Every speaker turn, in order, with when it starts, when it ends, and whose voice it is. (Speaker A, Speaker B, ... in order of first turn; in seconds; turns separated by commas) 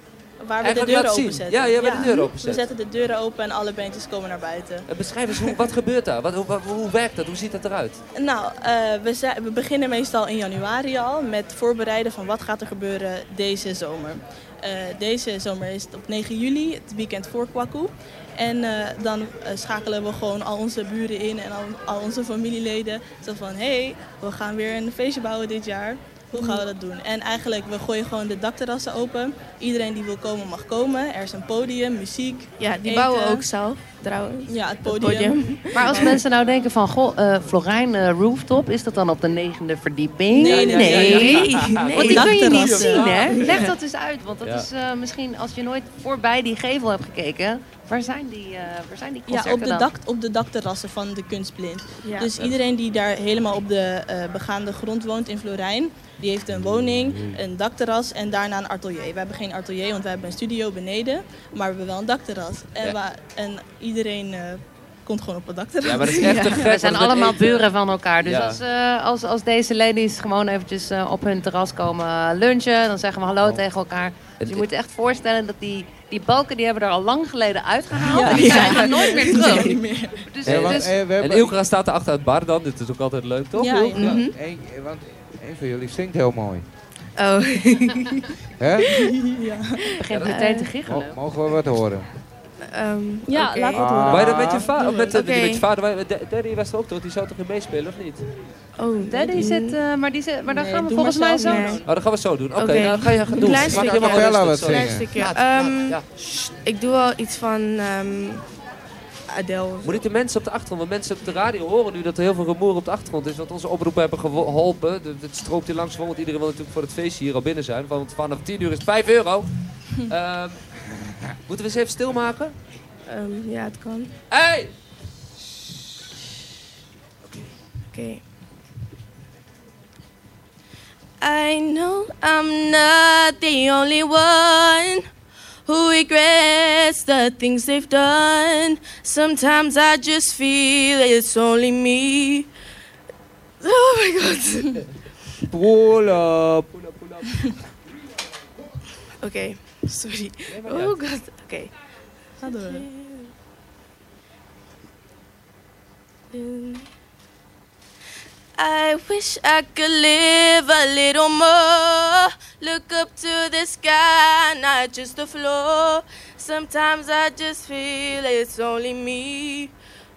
Speaker A: 0.4-4.9, Speaker B: 0.6-2.7, Speaker B: 4.9-8.0, Speaker A: 8.2-33.5, Speaker C: 26.4-26.6, Speaker C: 32.6-36.2, Speaker A: 34.5-36.2, Speaker D: 35.7-49.9, Speaker A: 40.3-41.4, Speaker B: 40.4-43.7, Speaker C: 41.0-42.2, Speaker A: 42.0-43.7, Speaker C: 43.0-43.7, Speaker B: 44.4-44.7, Speaker A: 49.3-66.7, Speaker C: 52.0-52.3, Speaker E: 56.6-57.4, Speaker B: 65.8-67.7, Speaker D: 66.2-80.9, Speaker B: 68.2-68.6, Speaker B: 74.4-74.7, Speaker A: 78.1-80.3, Speaker B: 78.2-78.6, Speaker C: 78.3-79.4, Speaker E: 80.4-81.6, Speaker B: 80.5-84.2, Speaker A: 83.5-84.2, Speaker C: 84.0-84.3, Speaker E: 84.1-86.7, Speaker C: 87.2-89.1, Speaker E: 88.6-88.9, Speaker A: 88.9-89.9, Speaker D: 90.0-91.2, Speaker B: 90.1-90.4, Speaker C: 90.2-90.7, Speaker E: 90.8-92.1, Speaker C: 92.7-93.9, Speaker A: 93.3-95.2, Speaker E: 93.7-94.7, Speaker B: 94.1-98.3, Speaker C: 95.1-95.7, Speaker C: 98.8-99.8, Speaker D: 99.1-101.8, Speaker C: 100.5-101.8, Speaker B: 101.8-106.1, Speaker C: 102.5-106.0, Speaker E: 103.6-105.2, Speaker C: 106.6-108.5, Speaker C: 109.3-110.0, Speaker B: 109.8-120.6, Speaker B: 121.5-122.5, Speaker C: 123.1-124.1, Speaker B: 124.3-124.7, Speaker B: 127.2-127.5, Speaker C: 127.9-128.2, Speaker C: 131.2-135.0, Speaker C: 135.7-142.5, Speaker C: 143.6-144.8, Speaker E: 145.5-146.7, Speaker B: 146.7-147.4, Speaker C: 149.2-151.7, Speaker B: 150.5-151.0, Speaker A: 152.4-152.9, Speaker C: 152.4-153.3, Speaker C: 156.3-156.9, Speaker C: 158.6-169.7